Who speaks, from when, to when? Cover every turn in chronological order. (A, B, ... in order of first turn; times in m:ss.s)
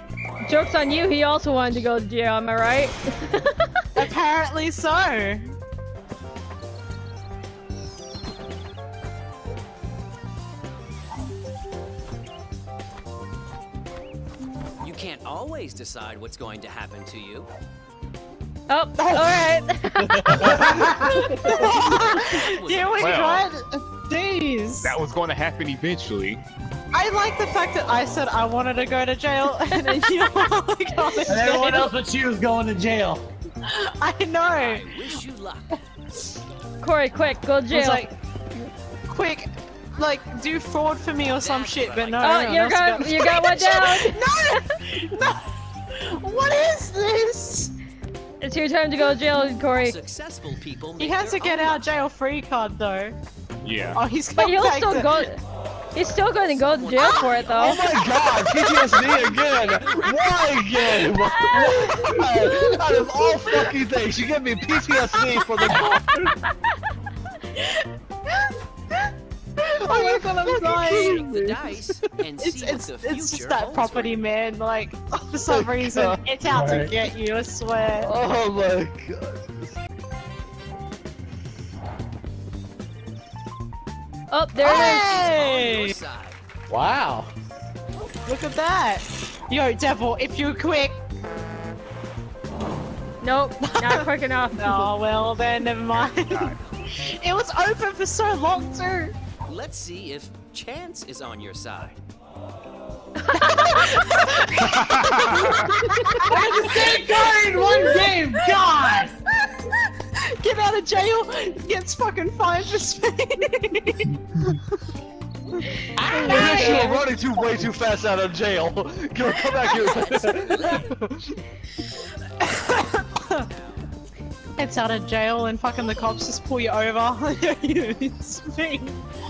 0:00.4-0:03.7 A
0:04.0-0:05.5 B
0:14.8-0:17.5 C
0:18.7-0:21.5 A
0:19.0-0:19.4 B
0:20.2-0:20.9 D
0:20.7-0:21.1 E
0:21.2-0:25.0 B
0:21.8-0:23.4 C
0:23.0-0:23.5 F
0:24.8-0:26.4 F
0:26.9-0:31.9 B
0:31.2-0:33.2 E
0:33.6-0:34.8 B
0:34.5-0:35.8 C
0:36.8-0:38.1 A
0:37.7-0:38.1 B
0:39.1-0:47.7 B
0:41.3-0:42.5 C
0:42.2-0:44.6 A
0:48.4-0:49.9 A
0:49.8-0:51.8 C
0:51.0-0:53.2 B
0:53.6-0:54.0 F
0:53.9-0:55.3 B
0:54.4-0:55.4 A
0:55.9-0:57.8 A
0:56.5-0:58.5 C
0:57.6-1:06.0 D
0:59.0-1:00.6 C
1:01.0-1:02.0 A
1:01.8-1:02.2 C
1:07.6-1:07.8 B
1:09.6-1:11.2 B
1:10.7-1:11.5 E
1:10.8-1:14.2 C
1:12.4-1:18.1 B
1:15.5-1:16.2 D
1:18.0-1:19.7 D
1:24.3-1:25.1 A
1:24.6-1:25.9 B
1:24.7-1:26.4 C
1:26.7-1:27.3 E
1:28.2-1:31.0 B
1:33.2-1:34.9 A
1:33.6-1:34.0 B
1:34.6-1:39.1 B
1:36.0-1:36.8 C
1:36.2-1:36.6 F
1:39.5-1:42.0 C
1:43.3-1:48.7 B
1:44.8-1:45.7 F
1:46.3-1:49.1 E
1:49.4-1:49.7 B
1:50.4-1:54.6 B
1:56.0-1:57.1 A
1:56.0-2:01.4 D
1:56.3-1:56.9 B
1:59.8-2:01.0 C
2:02.4-2:03.9 C
2:04.6-2:09.0 B